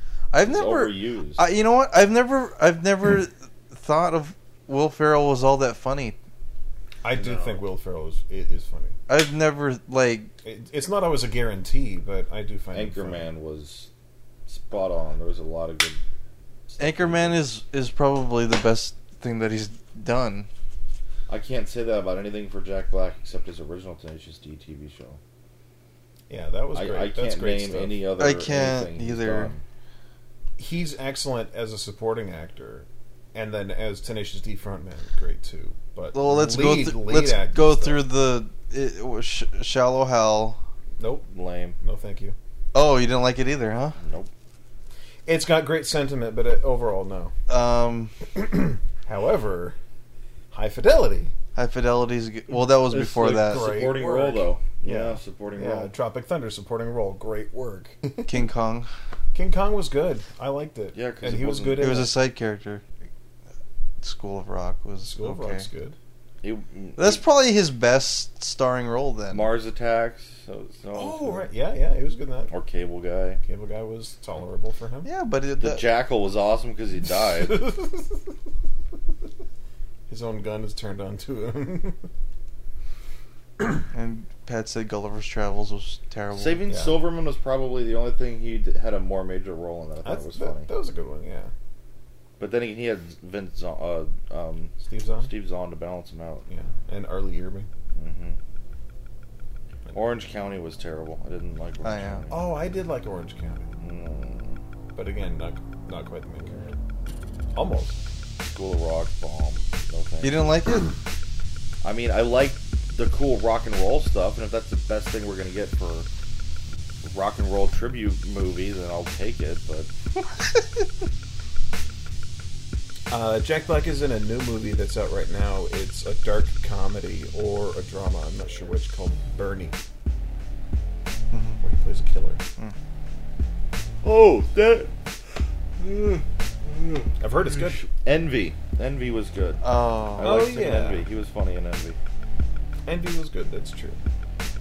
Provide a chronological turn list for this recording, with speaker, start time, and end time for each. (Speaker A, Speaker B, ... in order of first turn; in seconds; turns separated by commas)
Speaker A: 0.3-6.2, Speaker B: 0.4-1.4, Speaker C: 7.0-8.9, Speaker B: 7.2-7.5, Speaker A: 9.1-10.3, Speaker C: 10.4-13.3, Speaker B: 12.7-13.9, Speaker B: 14.5-16.0, Speaker B: 16.7-17.4, Speaker A: 16.8-20.5, Speaker B: 21.3-25.2, Speaker C: 26.3-28.0, Speaker B: 26.7-29.6, Speaker A: 28.2-29.5, Speaker C: 30.6-38.0, Speaker A: 36.1-40.6, Speaker C: 41.0-41.2, Speaker B: 41.3-41.8, Speaker C: 41.8-42.3, Speaker A: 42.7-44.0, Speaker B: 44.0-44.3, Speaker C: 45.2-47.3, Speaker A: 47.5-48.1, Speaker C: 48.4-49.8, Speaker C: 50.5-51.3, Speaker A: 51.5-53.7, Speaker B: 52.8-55.9, Speaker C: 53.3-58.4, Speaker A: 58.2-58.9, Speaker C: 59.3-62.1, Speaker B: 60.9-62.0, Speaker A: 61.8-62.8, Speaker A: 64.0-65.7, Speaker C: 65.1-66.0, Speaker B: 66.4-67.2, Speaker A: 67.0-69.5, Speaker B: 69.3-71.5, Speaker C: 70.9-72.5, Speaker B: 72.5-73.4, Speaker C: 73.4-75.1, Speaker A: 75.0-75.8, Speaker B: 75.6-77.7, Speaker C: 80.1-82.0, Speaker A: 83.9-86.6, Speaker B: 86.3-90.7, Speaker C: 86.7-87.0, Speaker C: 90.0-91.5, Speaker B: 92.4-96.5, Speaker C: 94.8-95.3, Speaker C: 96.5-97.7, Speaker B: 97.9-98.4, Speaker B: 99.9-102.5, Speaker A: 101.8-102.2, Speaker C: 102.3-103.7, Speaker B: 103.8-104.6, Speaker C: 104.9-106.8, Speaker C: 107.5-108.0, Speaker B: 108.5-110.6, Speaker A: 110.2-110.9, Speaker B: 111.8-116.1, Speaker B: 117.0-119.9, Speaker C: 123.1-129.8, Speaker A: 131.3-131.6, Speaker C: 131.6-132.4, Speaker B: 134.0-134.9, Speaker B: 135.8-139.6, Speaker C: 137.2-137.8, Speaker A: 139.6-140.4, Speaker B: 140.2-142.0, Speaker C: 140.2-141.0, Speaker C: 142.8-144.0